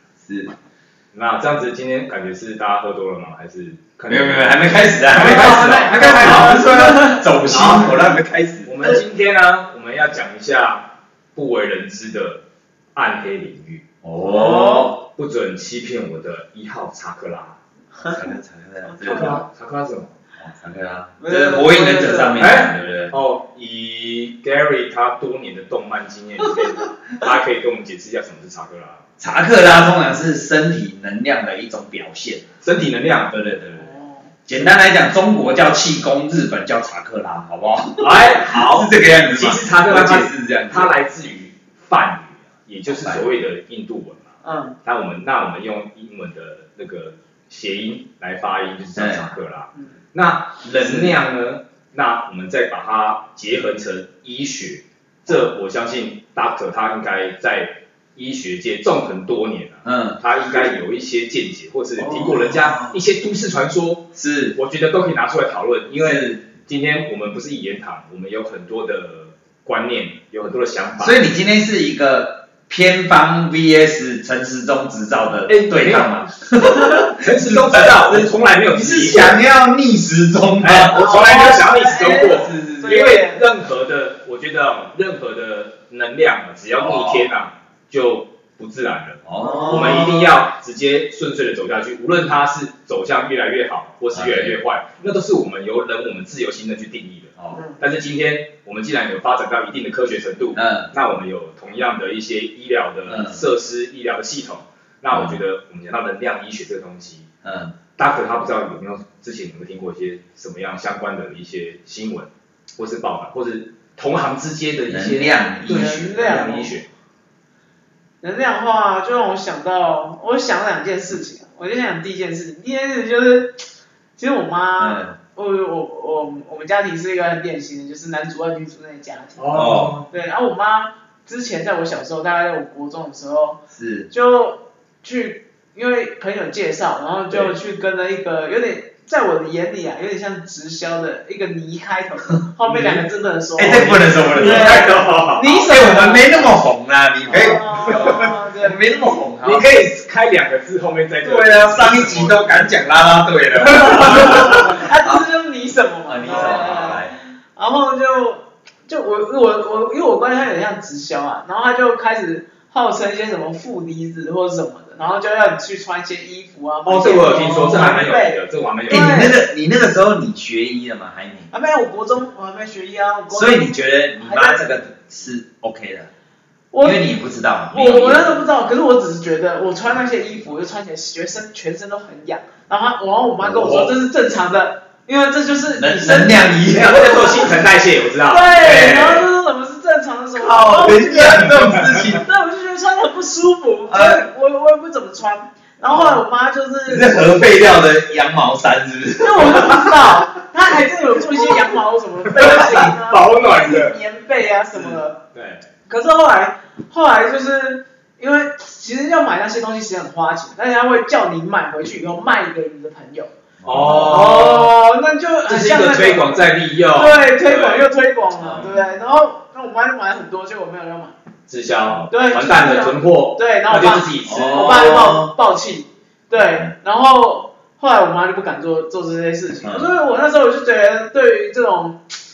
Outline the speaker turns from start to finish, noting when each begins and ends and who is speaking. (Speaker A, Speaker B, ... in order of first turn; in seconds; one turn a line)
Speaker A: 0.2-0.5
Speaker B: 1.1-8.1
Speaker A: 4.1-8.7
Speaker C: 5.1-7.2
Speaker B: 8.7-12.4
Speaker B: 12.9-13.8
Speaker A: 14.0-15.0
Speaker C: 14.2-15.0
Speaker B: 15.0-17.6
Speaker A: 18.1-19.4
Speaker B: 19.0-20.1
Speaker A: 20.4-23.2
Speaker C: 21.2-22.5
Speaker B: 22.4-29.0
Speaker A: 29.2-32.5
Speaker B: 32.6-33.6
Speaker A: 33.3-33.8
Speaker C: 33.8-34.3
Speaker A: 34.5-40.9
Speaker B: 38.0-44.3
Speaker A: 42.9-43.2
Speaker C: 44.4-44.8
Speaker B: 44.8-71.2
Speaker A: 49.0-49.3
Speaker A: 50.8-51.2
Speaker A: 59.9-60.2
Speaker A: 62.0-63.0
Speaker A: 64.2-64.6
Speaker A: 66.0-66.5
Speaker A: 71.0-81.1
Speaker B: 75.5-76.2
Speaker B: 77.0-79.4
Speaker B: 80.6-107.3
Speaker C: 80.9-83.5
Speaker A: 86.8-87.3
Speaker A: 89.3-90.3
Speaker C: 89.4-90.1
Speaker A: 94.1-94.6
Speaker C: 97.5-97.8
Speaker A: 100.5-100.9
Speaker A: 103.1-103.4
Speaker A: 105.1-105.4
Speaker A: 107.4-107.8
Speaker B: 108.0-116.9
Speaker A: 114.9-116.0
Speaker C: 115.7-116.7
Speaker C: 118.2-123.6
Speaker C: 124.2-146.4
Speaker A: 124.8-125.2
Speaker B: 129.4-130.1
Speaker A: 129.5-130.0
Speaker A: 133.7-134.1
Speaker B: 142.7-143.0
Speaker A: 143.6-149.7
Speaker B: 144.3-145.5
Speaker C: 147.3-149.2
Speaker B: 147.3-148.3
Speaker B: 149.4-152.8
Speaker A: 151.2-155.2
Speaker B: 153.6-154.8
Speaker C: 154.0-169.4
Speaker A: 156.1-157.2
Speaker B: 166.9-169.2
Speaker A: 167.5-168.0
Speaker A: 168.9-171.5
Speaker C: 171.5-174.6
Speaker A: 173.3-176.1
Speaker C: 176.7-177.0
Speaker A: 176.8-178.4
Speaker C: 177.7-187.5
Speaker A: 183.4-184.0
Speaker A: 185.8-187.5
Speaker B: 186.7-188.5
Speaker C: 188.3-191.5
Speaker A: 188.6-189.3
Speaker A: 190.4-192.2
Speaker B: 191.0-192.2
Speaker C: 192.1-197.9
Speaker A: 193.9-194.2
Speaker A: 196.9-200.2
Speaker C: 199.2-205.2
Speaker B: 202.3-204.0
Speaker B: 204.8-205.6
Speaker C: 205.9-216.4
Speaker A: 213.6-214.3
Speaker B: 213.7-214.7
Speaker B: 215.5-217.8
Speaker C: 216.9-221.2
Speaker A: 218.4-218.8
Speaker B: 221.5-224.9
Speaker C: 222.1-232.0
Speaker A: 224.2-225.3
Speaker A: 226.3-226.7
Speaker A: 229.6-229.9